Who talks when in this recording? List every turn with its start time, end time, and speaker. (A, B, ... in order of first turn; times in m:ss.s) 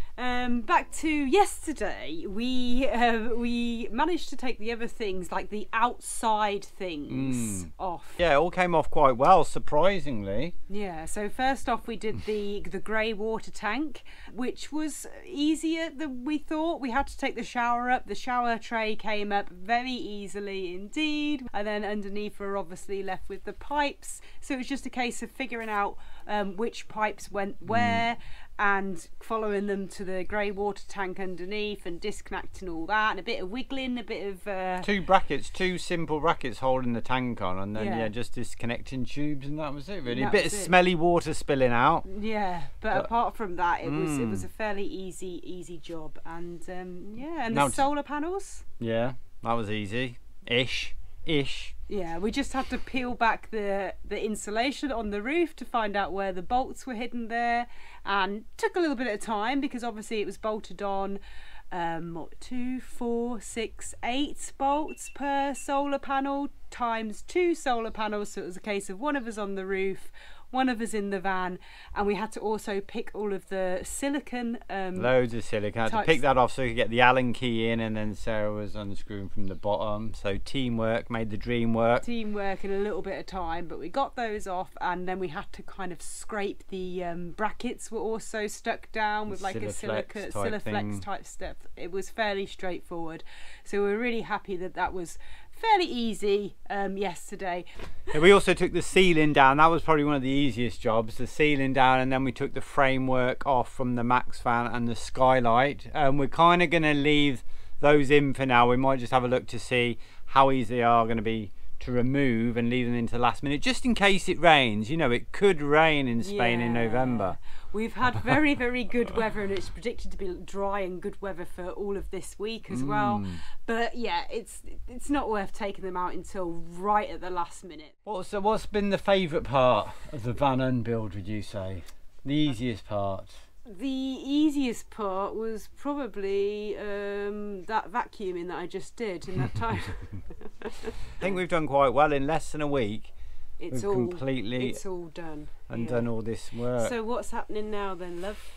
0:00.2-0:08.2 A
0:07.1-0:10.5 B
0:10.7-0:34.9 A
0:27.7-0:28.0 B
0:34.8-0:42.1 B
0:37.8-0:38.1 A
0:40.0-0:40.7 A
0:42.1-0:48.7 A
0:43.8-0:44.5 B
0:47.5-0:47.9 B
0:48.8-0:51.8 B
0:51.9-1:01.2 A
1:01.7-1:15.1 A
1:15.0-1:22.0 B
1:15.9-1:16.2 A
1:22.0-1:37.7 A
1:29.3-1:31.0 B
1:38.1-1:57.4 B
1:56.2-2:07.9 A
2:02.7-2:03.4 B
2:08.1-2:13.4 B
2:13.7-2:21.3 A
2:21.2-2:23.1 B
2:23.6-2:26.1 A
2:23.7-2:24.8 B
2:25.7-2:27.0 B
2:26.8-2:28.5 A